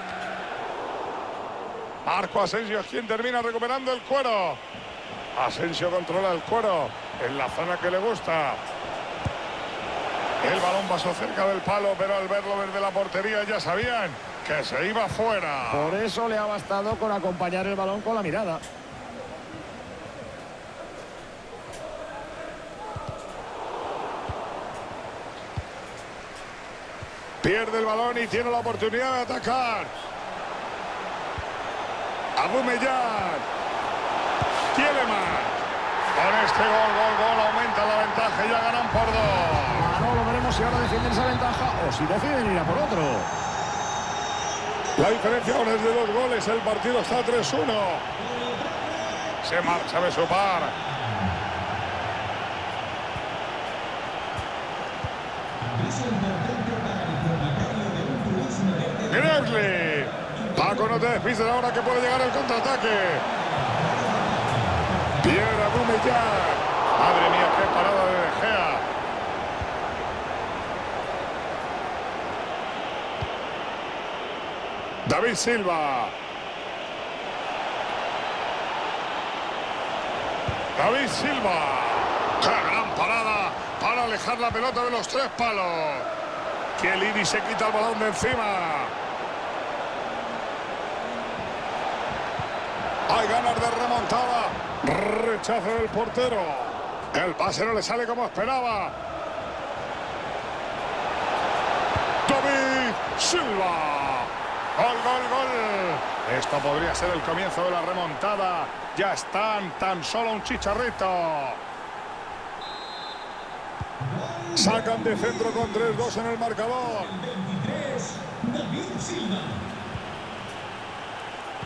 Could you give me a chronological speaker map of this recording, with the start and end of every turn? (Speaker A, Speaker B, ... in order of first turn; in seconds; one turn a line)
Speaker A: 2.0-4.6
Speaker A: 5.3-8.6
Speaker A: 10.4-16.0
Speaker B: 15.7-18.6
Speaker A: 27.4-29.9
Speaker A: 32.4-33.5
Speaker A: 34.7-35.6
Speaker A: 36.1-40.0
Speaker B: 39.7-43.3
Speaker C: 44.5-45.7
Speaker A: 45.0-48.0
Speaker C: 48.2-51.3
Speaker A: 49.4-50.7
Speaker C: 55.6-61.2
Speaker A: 59.1-63.2
Speaker C: 63.0-65.2
Speaker A: 65.2-68.8
Speaker A: 75.0-76.1
Speaker A: 80.8-86.1
Speaker A: 86.8-88.9
Speaker A: 93.1-98.9
Speaker A: 102.2-111.6
Speaker C: 114.0-116.1
Speaker A: 114.5-117.1
Speaker C: 116.8-119.7